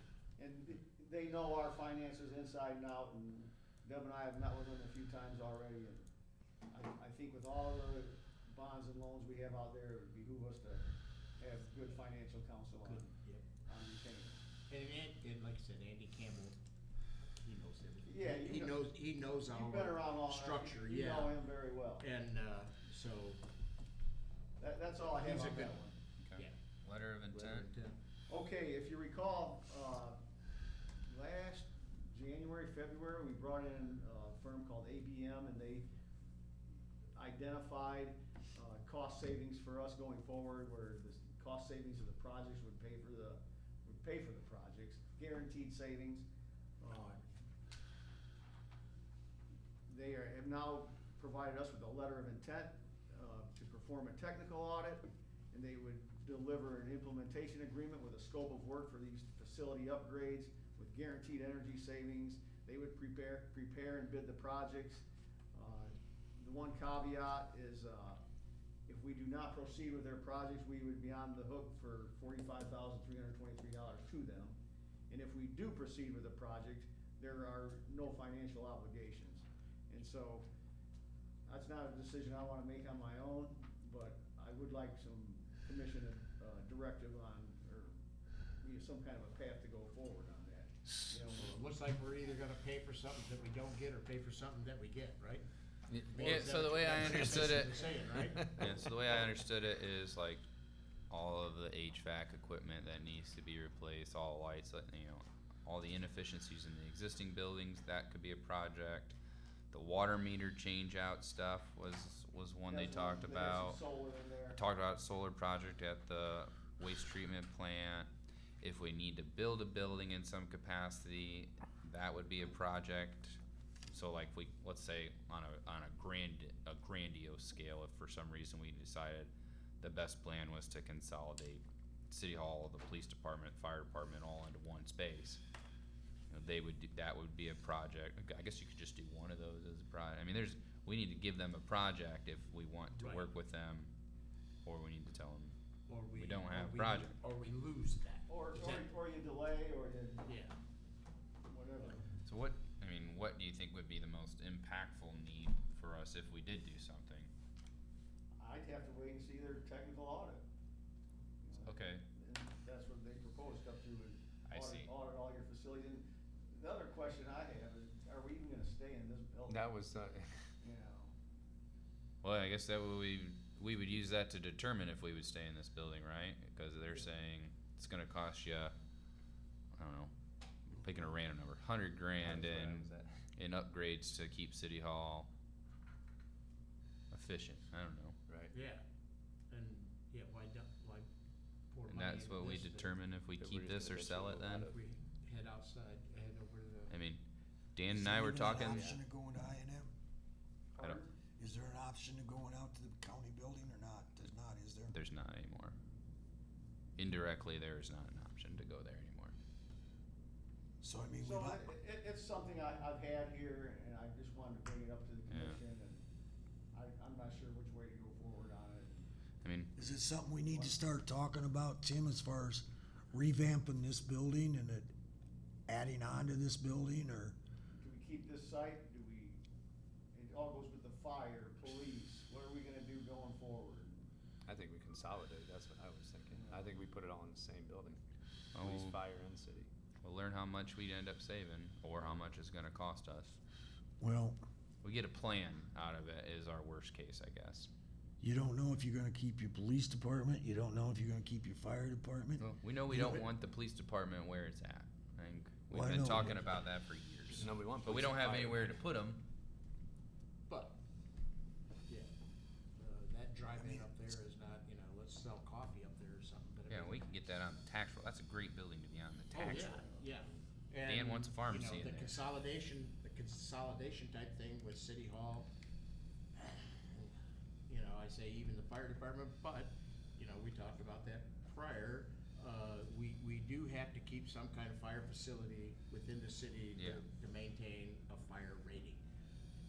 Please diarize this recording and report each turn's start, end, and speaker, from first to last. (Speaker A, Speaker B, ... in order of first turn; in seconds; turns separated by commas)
Speaker A: 0.4-6.1, Speaker A: 6.7-13.1, Speaker B: 12.8-13.5, Speaker A: 13.6-14.4, Speaker B: 14.7-16.6, Speaker B: 17.4-21.4, Speaker A: 18.1-18.9, Speaker A: 19.4-22.1, Speaker B: 22.0-23.4, Speaker A: 24.6-26.0, Speaker B: 25.1-25.8, Speaker C: 26.2-27.7, Speaker B: 27.3-28.0, Speaker A: 28.3-30.2, Speaker A: 31.1-35.9, Speaker A: 37.2-46.3, Speaker A: 46.8-47.2, Speaker A: 49.9-68.2, Speaker A: 68.9-74.6, Speaker A: 75.1-80.5, Speaker A: 81.5-88.0, Speaker A: 88.6-91.6, Speaker B: 91.3-95.5, Speaker C: 95.9-100.4, Speaker B: 96.1-99.2, Speaker C: 101.1-109.2, Speaker C: 109.7-113.8, Speaker A: 112.7-114.6, Speaker C: 114.6-118.1, Speaker C: 118.6-135.4, Speaker C: 136.3-143.9, Speaker B: 143.0-143.3, Speaker C: 144.7-145.6, Speaker B: 145.9-148.9, Speaker C: 146.1-147.1, Speaker A: 148.3-150.3, Speaker B: 150.2-150.6, Speaker A: 151.5-152.0, Speaker C: 152.2-157.3, Speaker A: 158.4-160.4, Speaker A: 161.4-169.7, Speaker C: 161.7-162.1, Speaker C: 164.4-164.9, Speaker D: 169.5-170.3, Speaker A: 170.6-171.1, Speaker C: 172.2-178.7, Speaker C: 179.7-180.1, Speaker C: 180.7-185.3, Speaker D: 182.2-183.2, Speaker C: 187.1-188.2, Speaker B: 188.5-188.8, Speaker B: 189.5-191.1, Speaker B: 191.7-192.9, Speaker C: 191.9-194.7, Speaker D: 193.4-194.8, Speaker B: 194.7-196.9, Speaker C: 196.9-197.2, Speaker C: 197.8-198.9, Speaker E: 197.9-199.9, Speaker D: 198.6-199.0, Speaker A: 200.8-201.1, Speaker E: 201.4-205.0, Speaker C: 204.9-205.8, Speaker C: 207.0-209.3, Speaker E: 210.8-211.6, Speaker A: 211.2-216.0, Speaker C: 215.3-215.6, Speaker A: 216.7-219.1, Speaker C: 219.4-219.7, Speaker E: 219.8-224.9, Speaker A: 220.5-220.8, Speaker E: 225.7-227.4, Speaker A: 227.8-229.4, Speaker A: 230.1-234.1, Speaker D: 234.5-238.0, Speaker A: 236.3-236.7, Speaker C: 238.5-239.0, Speaker D: 238.6-239.7, Speaker C: 240.0-243.4, Speaker E: 244.0-244.4, Speaker C: 244.8-247.7, Speaker E: 248.2-253.3, Speaker C: 252.4-259.2, Speaker E: 255.7-256.4, Speaker D: 257.3-258.8, Speaker B: 260.5-260.8, Speaker B: 262.8-267.2, Speaker E: 263.6-263.9, Speaker C: 266.7-269.8, Speaker B: 269.3-275.5, Speaker A: 269.5-270.0, Speaker C: 270.8-272.2, Speaker B: 276.4-277.2, Speaker B: 277.7-289.0, Speaker C: 286.8-287.0